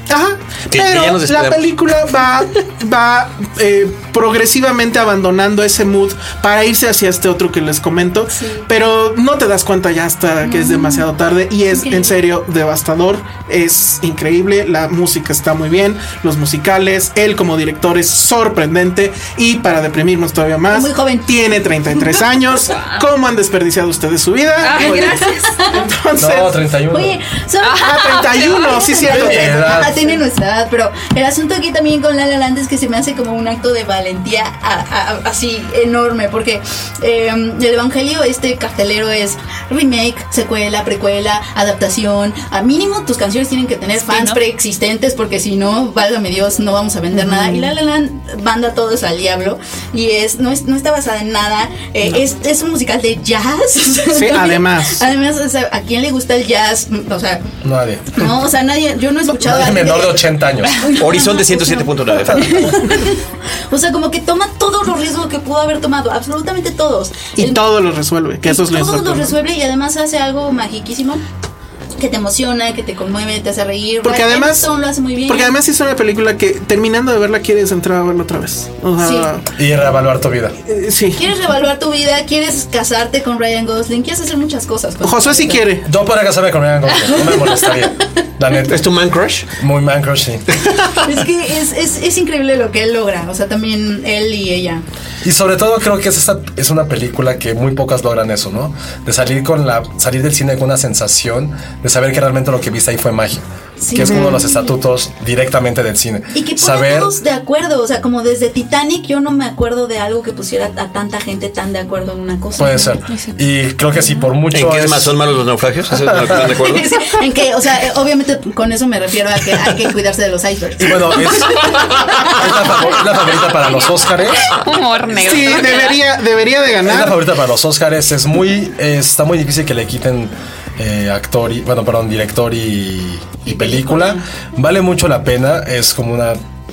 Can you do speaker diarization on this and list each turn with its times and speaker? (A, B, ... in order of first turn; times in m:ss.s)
0:00.1-0:26.6 A
0:00.7-0:01.7 B
0:08.3-0:08.7 C
0:10.4-0:11.1 C
0:11.7-0:12.2 C
0:20.7-0:21.3 C
0:24.6-0:25.5 D
0:24.7-0:25.8 C
0:26.2-0:27.2 E
0:26.9-0:57.5 C
0:27.6-0:29.0 D
0:27.8-0:30.1 A
0:29.0-0:30.0 E
0:44.0-0:44.4 D
0:47.1-0:47.7 A
0:54.1-0:55.0 A
0:57.6-0:58.3 E
0:58.1-1:07.7 C
0:59.4-1:00.8 E
1:01.0-1:02.7 B
1:02.3-1:02.7 E
1:07.4-1:09.4 A
1:08.4-1:11.2 C
1:12.0-1:15.6 C
1:14.0-1:14.7 A
1:15.3-1:19.5 A
1:19.0-1:19.3 C
1:19.6-1:20.6 E
1:20.7-1:21.3 A
1:21.1-1:25.7 C
1:25.0-1:25.8 A
1:25.8-1:28.8 E
1:27.2-1:27.6 C
1:28.7-1:29.5 B
1:29.6-1:30.5 E
1:30.9-1:34.8 C
1:35.2-1:47.1 E
1:43.8-1:44.7 C
1:44.0-1:44.4 A
1:46.3-1:53.0 C
1:52.6-1:55.2 E
1:53.1-1:53.4 D
1:54.5-1:56.9 B
1:55.9-1:56.4 E
1:56.4-2:02.7 C
2:00.8-2:04.5 E
2:04.4-2:06.0 D
2:05.1-2:07.2 A
2:06.8-2:16.4 E
2:13.5-2:14.2 C